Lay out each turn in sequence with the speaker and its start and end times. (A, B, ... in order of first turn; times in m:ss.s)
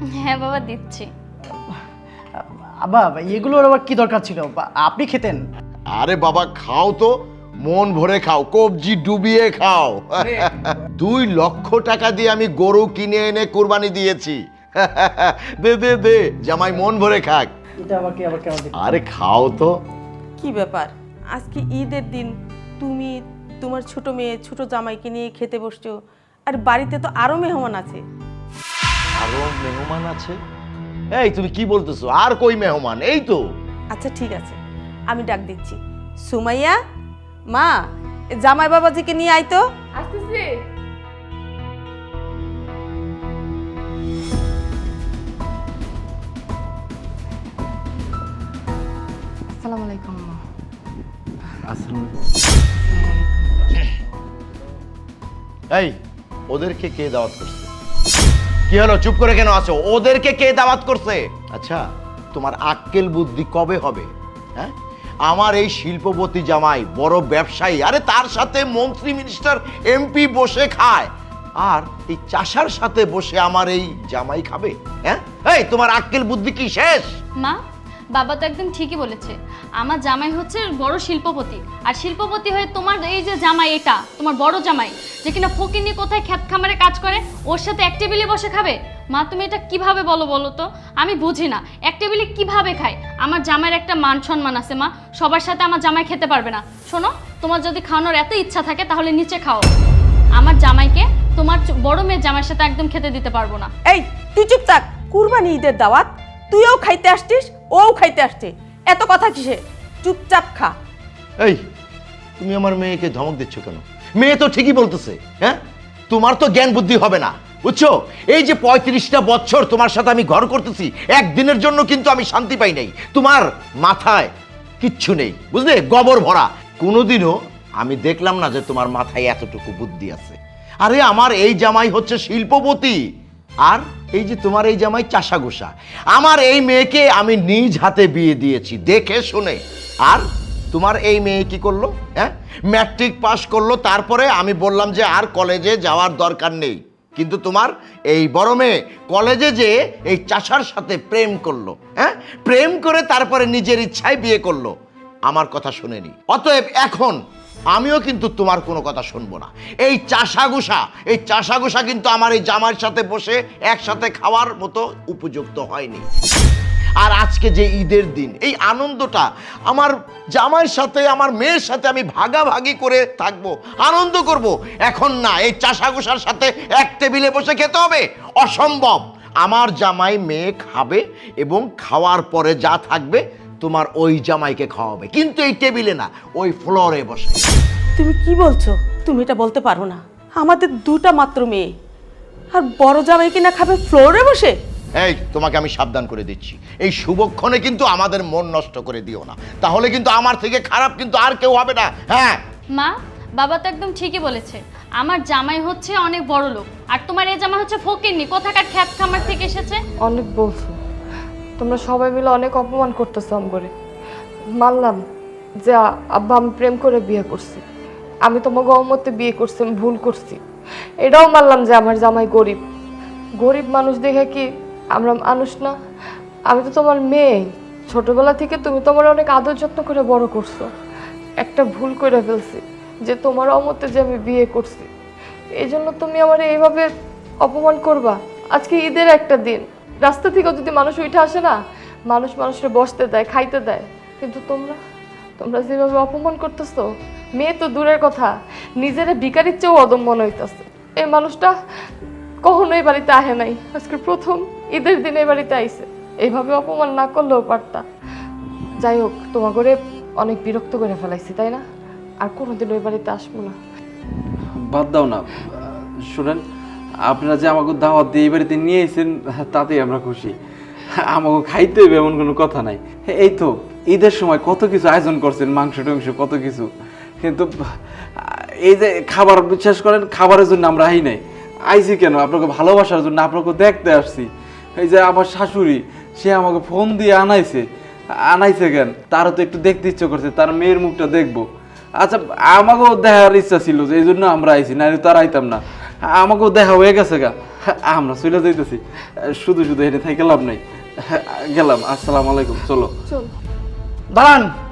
0:00.2-0:01.1 A
0:02.4-0:05.4 B
0:06.0-0:07.1 C
0:07.6-0:17.5 C
0:17.9-0:18.5 B
0:18.7-0:19.7 C
0:20.4-0:26.0 D
0:26.5-0:28.0 D
0:29.2-0:30.4 C
0:31.2-0:33.4 C
0:33.9-0:34.6 D
0:35.1-0:36.8 D
0:37.5-0:37.8 D
0:38.3-0:39.7 D
0:40.0-0:40.5 E
0:49.6-0:50.4 E
0:51.7-0:52.1 F
0:52.9-0:53.6 E
0:56.5-0:57.7 C
0:58.7-1:01.8 C
1:02.3-1:04.7 C
1:05.2-1:17.1 C
1:18.2-1:39.7 A
1:40.4-1:43.7 A
1:43.9-1:50.8 D
1:52.4-2:13.0 C
2:13.7-2:34.7 C
2:35.3-2:37.2 C
2:37.7-2:46.1 C
2:47.0-3:07.4 C
3:08.0-3:11.7 D
3:12.5-3:14.6 D
3:15.0-3:22.4 C
3:22.8-3:29.8 A
3:30.0-3:30.8 E
3:31.6-3:33.7 E
3:34.6-3:35.0 E
3:35.6-3:37.6 E
3:38.2-3:40.4 E
3:41.0-3:42.6 E
3:43.4-3:44.4 E
3:45.0-3:45.7 E
3:46.5-3:47.4 E
3:47.9-3:50.7 E
3:51.4-3:54.9 E
3:55.6-3:56.9 E
3:57.4-4:01.6 E
4:02.1-4:04.8 E
4:05.4-4:06.8 E
4:07.4-4:11.5 E
4:12.4-4:17.8 E
4:18.8-4:21.6 E
4:22.2-4:23.6 E
4:24.6-4:26.4 F
4:27.0-4:30.3 F
4:31.1-4:36.7 F
4:37.2-4:37.5 F
4:38.2-4:47.6 F
4:48.3-4:51.4 F
4:52.0-5:02.9 F
5:04.1-5:04.5 B